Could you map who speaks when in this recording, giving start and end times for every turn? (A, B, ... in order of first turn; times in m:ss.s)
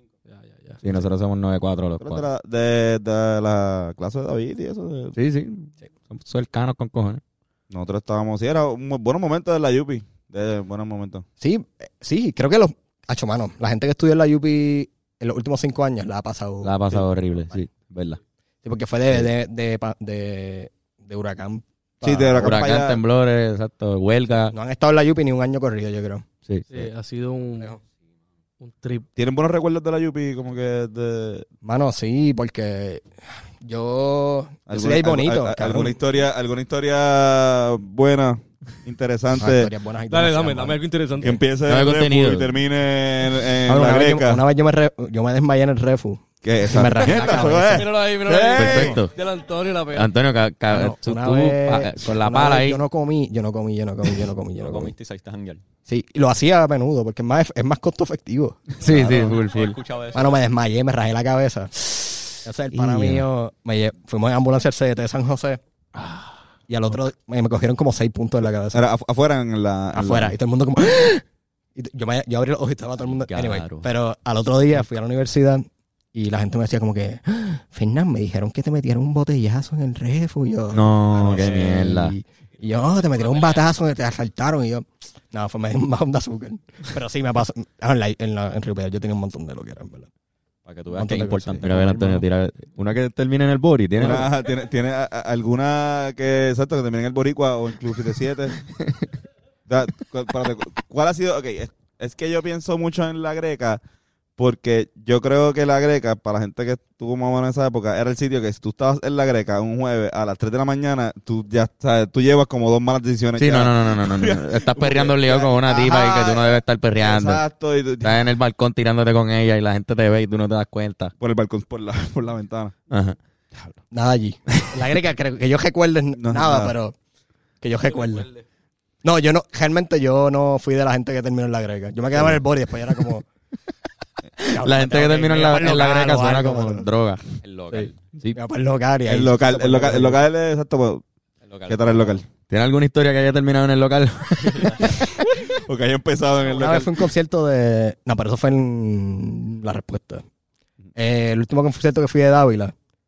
0:00.3-0:00.8 A
0:00.8-0:02.2 B
0:02.0-0:05.2 C
0:05.1-0:07.2 B
0:07.7-0:11.2 C
0:11.4-0:17.0 D
0:16.6-0:18.2 B
0:18.6-0:22.7 D
0:22.0-0:23.0 C
0:22.4-0:24.5 B
0:24.5-0:26.2 D
0:26.5-0:26.8 B
0:26.7-0:27.8 A
0:28.6-0:29.1 A
0:29.2-0:31.5 C
0:31.6-0:33.1 D
0:33.6-0:36.0 D
0:34.7-0:39.7 C
0:39.3-0:40.8 D
0:40.1-0:41.4 A
0:41.2-0:44.4 C
0:41.7-0:42.5 B
0:43.7-0:47.9 D
0:46.4-0:49.0 C
0:47.0-0:50.1 A
0:48.6-0:49.1 B
0:49.9-0:52.8 B
0:50.7-0:54.9 D
0:54.6-0:55.6 E
0:55.8-0:58.7 D
0:58.8-0:59.8 B
0:58.8-1:00.4 E
0:58.9-0:59.2 C
1:00.1-1:05.6 D
1:02.7-1:03.3 B
1:06.7-1:08.8 D
1:08.7-1:10.3 C
1:09.9-1:11.2 D
1:11.8-1:30.1 D
1:13.0-1:13.9 E
1:20.7-1:22.2 B
1:21.4-1:21.6 E
1:30.6-1:32.2 E
1:30.9-1:31.8 D
1:31.6-1:34.3 B
1:34.0-1:38.6 C
1:39.7-1:43.8 C
1:44.4-1:58.2 C
1:53.4-1:57.4 B
1:58.0-2:01.1 B
2:01.2-2:02.7 C
2:02.9-2:03.2 B
2:03.9-2:07.0 D
2:06.2-2:06.7 C
2:07.6-2:08.3 D
2:07.8-2:08.4 A
2:09.0-2:13.3 D
2:14.4-2:18.4 B
2:14.4-2:16.9 D
2:17.4-2:18.0 E
2:18.3-2:20.2 D
2:19.1-2:21.0 C
2:21.4-2:22.2 E
2:21.7-2:22.2 C
2:22.5-2:25.2 B
2:25.5-2:26.9 C
2:26.4-2:30.2 D
2:30.9-2:32.7 D